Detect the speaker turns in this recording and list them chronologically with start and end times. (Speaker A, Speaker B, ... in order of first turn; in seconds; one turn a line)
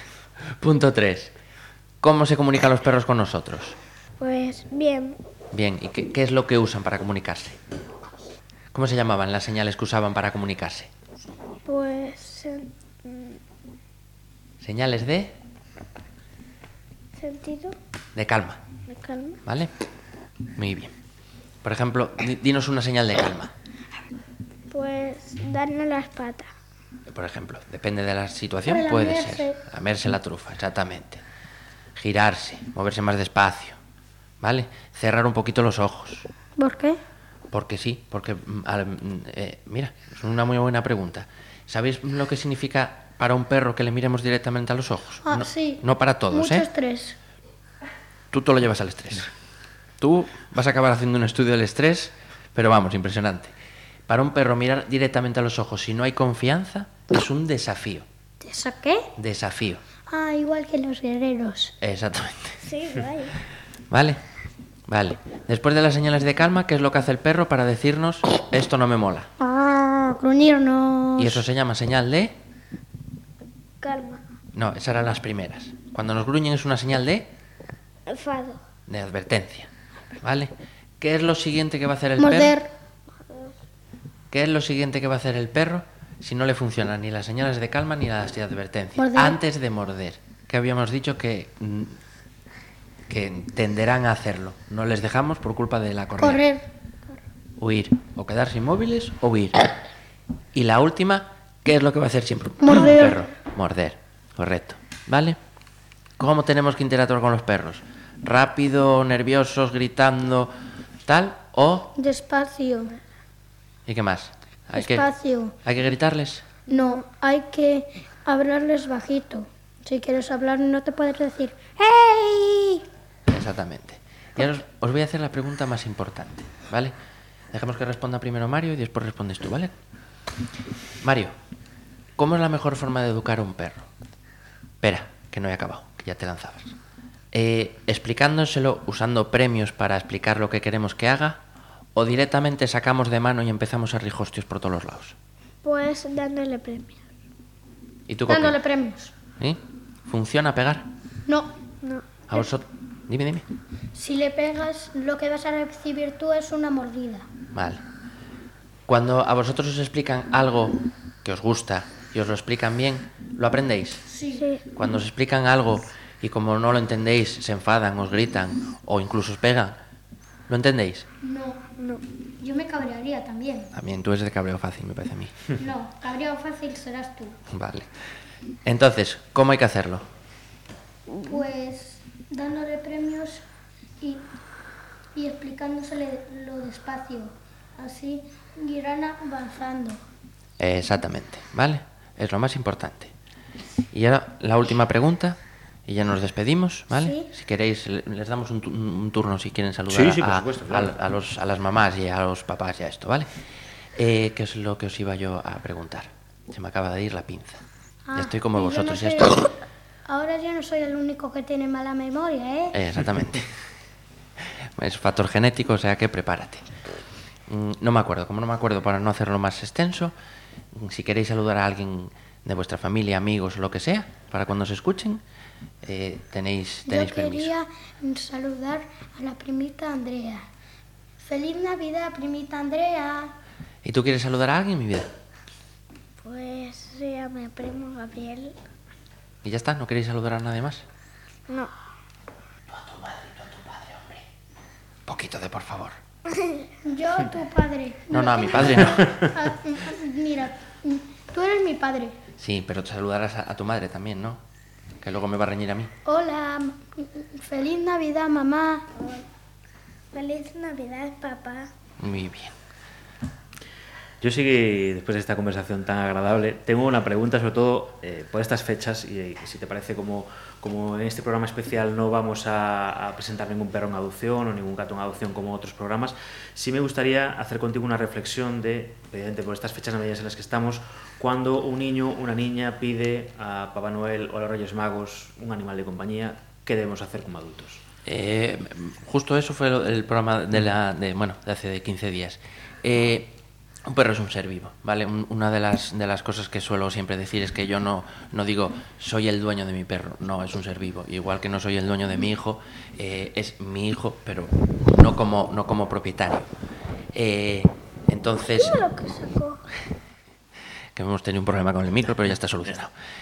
Speaker A: 0.5-1.3
Speaker A: 2.0-3.8
Speaker B: 4.2-5.2
Speaker A: 5.5-7.6
Speaker A: 8.7-10.9
Speaker B: 11.7-13.4
Speaker A: 14.6-15.3
Speaker B: 17.2-17.8
Speaker A: 18.1-18.6
Speaker B: 18.9-19.4
Speaker A: 19.4-19.7
Speaker A: 20.6-20.9
Speaker A: 21.6-23.5
Speaker B: 24.7-26.5
Speaker A: 27.1-31.2
Speaker C: 28.6-29.6
Speaker A: 31.9-33.8
Speaker A: 34.4-36.3
Speaker C: 36.6-37.0
Speaker A: 37.5-46.7
Speaker C: 45.2-47.1
Speaker A: 48.3-49.3
Speaker A: 50.0-53.5
Speaker A: 54.1-58.1
Speaker C: 58.4-59.1
Speaker A: 59.1-59.8
Speaker C: 60.1-61.8
Speaker A: 61.8-62.6
Speaker B: 62.6-63.4
Speaker A: 63.9-64.2
Speaker A: 64.9-69.3
Speaker C: 69.4-71.4
Speaker A: 71.2-72.3
Speaker B: 73.8-74.2
Speaker A: 74.5-77.3
Speaker B: 78.1-78.6
Speaker A: 78.9-82.6
Speaker C: 82.2-82.7
Speaker B: 83.3-83.5
Speaker A: 84.3-92.0
Speaker C: 89.0-89.4
Speaker A: 93.1-96.4
Speaker C: 96.2-96.7
Speaker A: 97.6-99.6
Speaker A: 100.5-105.4
Speaker C: 102.6-103.2
Speaker A: 106.2-110.5
Speaker A: 111.0-111.9
Speaker C: 112.0-112.9
Speaker A: 113.8-115.1
Speaker C: 114.7-115.5
Speaker A: 115.6-116.5
Speaker C: 116.7-122.9
Speaker A: 123.3-126.9
Speaker A: 127.5-129.7
Speaker A: 131.0-131.3
Speaker A: 132.2-133.9
Speaker A: 134.8-136.7
Speaker A: 137.3-141.4
Speaker A: 141.9-145.2
Speaker B: 145.6-147.1
Speaker A: 148.1-148.6
Speaker C: 148.3-149.1
Speaker A: 149.4-150.9
Speaker C: 151.3-151.6
Speaker A: 152.3-153.4
Speaker C: 153.9-157.3
Speaker A: 157.5-157.8
Speaker A: 158.9-164.0
Speaker C: 164.1-164.5
Speaker B: 164.3-164.6
Speaker A: 164.7-169.8
Speaker A: 170.5-171.1
Speaker C: 171.2-171.6
Speaker C: 172.4-173.7
Speaker A: 173.7-175.3
Speaker C: 175.6-177.4
Speaker A: 177.5-177.9
Speaker A: 178.6-180.1
Speaker C: 181.2-183.4
Speaker C: 185.1-190.0
Speaker A: 190.6-193.1
Speaker A: 193.9-203.3
Speaker C: 196.9-197.3
Speaker D: 199.9-200.9
Speaker A: 203.9-207.6
Speaker C: 208.1-209.6
Speaker A: 208.1-209.5
Speaker C: 210.1-212.8
Speaker A: 212.7-213.5
Speaker A: 214.4-216.7
Speaker A: 217.5-220.1
Speaker A: 220.7-225.2
Speaker A: 225.8-227.5
Speaker C: 226.8-230.5
Speaker C: 231.2-233.3
Speaker A: 233.8-235.1
Speaker B: 236.2-238.6
Speaker A: 239.4-240.8
Speaker A: 242.7-244.2
Speaker A: 245.1-246.0
Speaker B: 246.3-246.7
Speaker C: 246.8-252.2
Speaker A: 248.1-249.2
Speaker A: 252.4-254.4
Speaker A: 255.0-255.9
Speaker C: 256.0-258.9
Speaker B: 258.9-259.2
Speaker B: 260.1-261.7
Speaker A: 262.0-262.6
Speaker D: 264.2-287.8
Speaker A: 288.1-306.5
Speaker A: 307.1-308.8
Speaker B: 308.5-309.6
Speaker A: 310.9-312.9